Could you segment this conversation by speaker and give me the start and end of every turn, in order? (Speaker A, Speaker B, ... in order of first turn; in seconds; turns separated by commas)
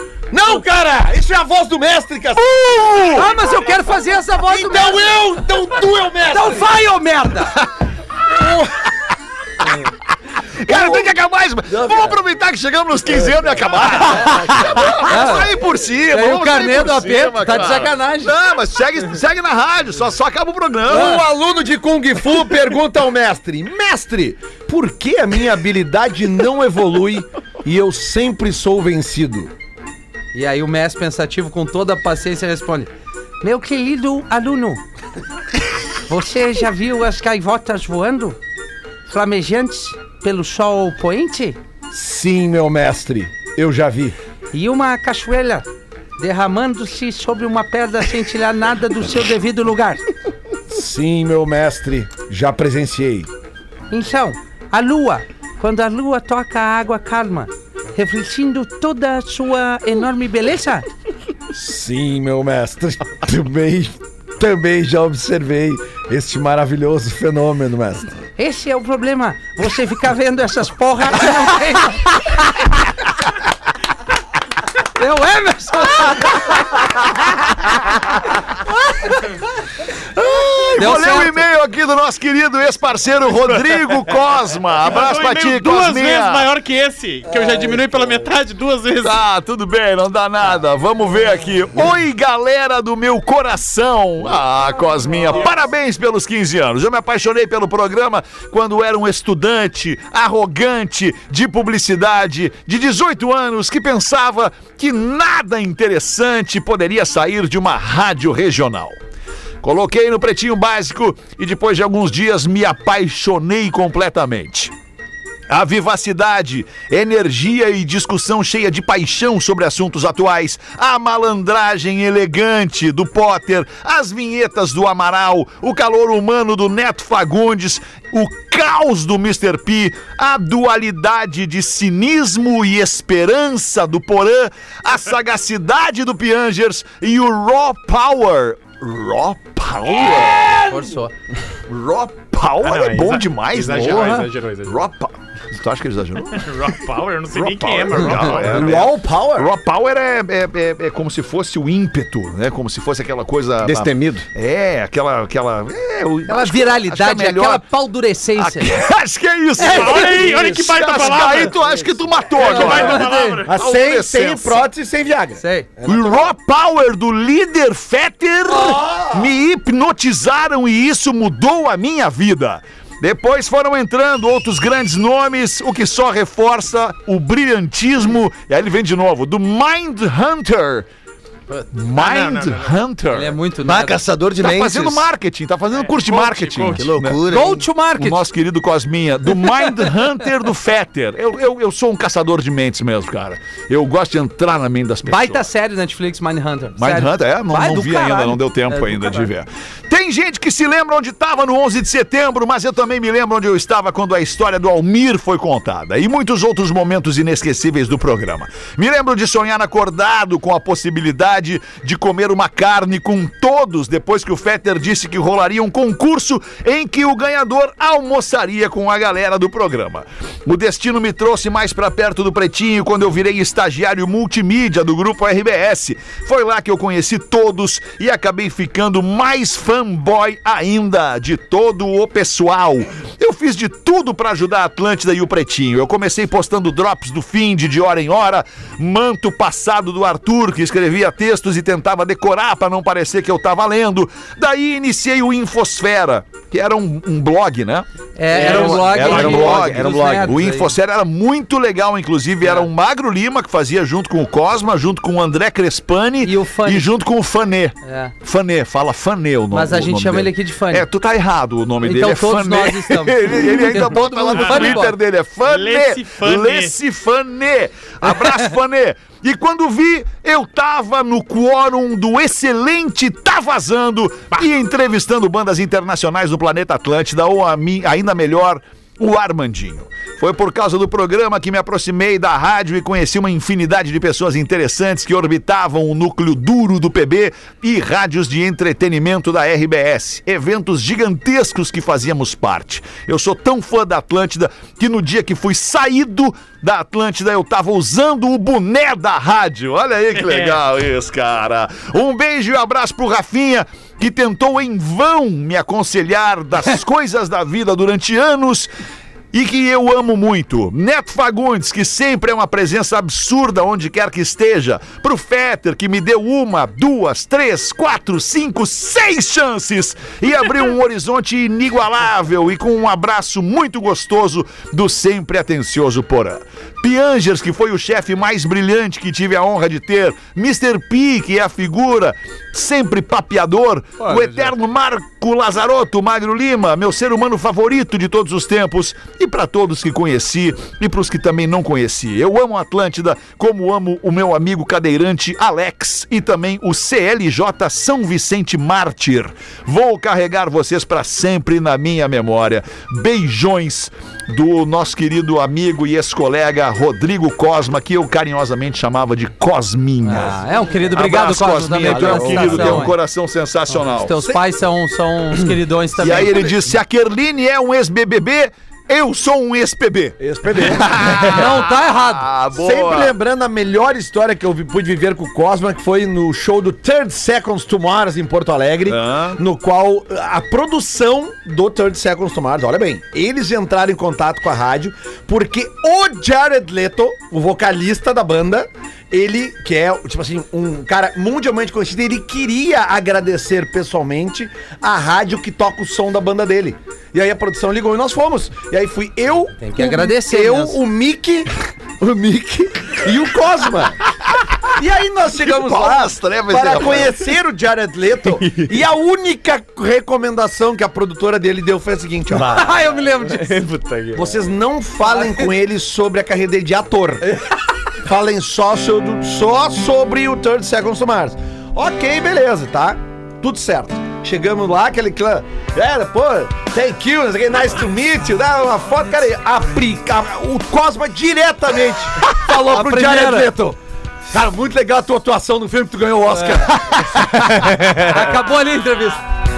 Speaker A: 0.3-3.3, Speaker B: 2.9-3.2, Speaker C: 3.1-5.2, Speaker A: 4.4-6.7, Speaker C: 6.3-7.6, Speaker A: 8.3-8.9, Speaker B: 10.6-21.2, Speaker A: 10.7-11.1, Speaker A: 11.7-12.2, Speaker A: 13.1-15.2, Speaker C: 15.0-15.5, Speaker C: 16.1-18.3, Speaker A: 20.9-29.5, Speaker C: 20.9-21.2, Speaker C: 30.3-32.9, Speaker C: 33.4-34.8, Speaker C: 36.1-38.4, Speaker C: 39.1-41.6, Speaker A: 41.9-44.2, Speaker C: 44.5-45.7, Speaker C: 46.2-50.0, Speaker A: 50.7-53.3, Speaker C: 53.9-60.9, Speaker A: 61.5-68.1, Speaker C: 68.4-72.5, Speaker C: 75.0-76.7, Speaker B: 80.1-86.5, Speaker C: 80.8-81.4, Speaker D: 84.8-89.2, Speaker A: 87.3-87.8, Speaker B: 89.0-109.0, Speaker B: 109.6-114.7, Speaker B: 115.5-140.6, Speaker A: 140.0-141.0, Speaker C: 140.7-141.1, Speaker B: 141.7-146.6, Speaker D: 142.6-144.8, Speaker C: 143.9-144.3, Speaker D: 146.3-148.8, Speaker B: 147.3-157.7, Speaker A: 148.4-149.5, Speaker E: 153.6-154.2, Speaker C: 156.3-158.7, Speaker B: 158.3-164.7, Speaker C: 159.6-160.2, Speaker D: 159.6-161.6, Speaker D: 162.3-163.7, Speaker C: 162.3-163.4, Speaker A: 163.5-166.3, Speaker C: 165.4-165.7, Speaker B: 165.8-180.9, Speaker A: 168.5-169.3, Speaker B: 181.7-183.4, Speaker D: 181.9-182.8, Speaker C: 183.1-184.0, Speaker E: 183.6-185.1, Speaker B: 184.4-187.2, Speaker D: 185.8-186.9, Speaker E: 186.8-187.7, Speaker C: 187.3-188.2, Speaker B: 188.0-195.5, Speaker C: 195.1-199.3, Speaker B: 196.8-308.7, Speaker C: 248.2-250.7, Speaker E: 248.3-250.3, Speaker D: 248.4-249.6, Speaker C: 256.2-256.9, Speaker C: 257.8-258.1, Speaker C: 259.5-260.9, Speaker C: 261.8-265.0, Speaker D: 264.3-264.9, Speaker D: 265.4-266.7, Speaker D: 300.2-300.6, Speaker B: 309.3-360.4, Speaker C: 360.0-362.9, Speaker B: 360.9-364.3, Speaker E: 361.9-362.9, Speaker C: 363.8-366.7, Speaker B: 366.0-373.2, Speaker A: 370.2-371.4, Speaker C: 371.2-372.3, Speaker A: 372.6-404.0, Speaker B: 378.9-379.4, Speaker C: 399.6-400.8, Speaker A: 404.7-412.7, Speaker B: 405.4-407.2, Speaker E: 412.3-412.8, Speaker C: 412.5-413.6, Speaker E: 413.3-414.4, Speaker A: 414.1-417.3, Speaker C: 415.1-415.4, Speaker A: 418.1-433.8, Speaker C: 432.4-433.5, Speaker A: 434.3-437.0, Speaker C: 436.3-436.6, Speaker C: 437.2-439.2, Speaker E: 437.6-438.0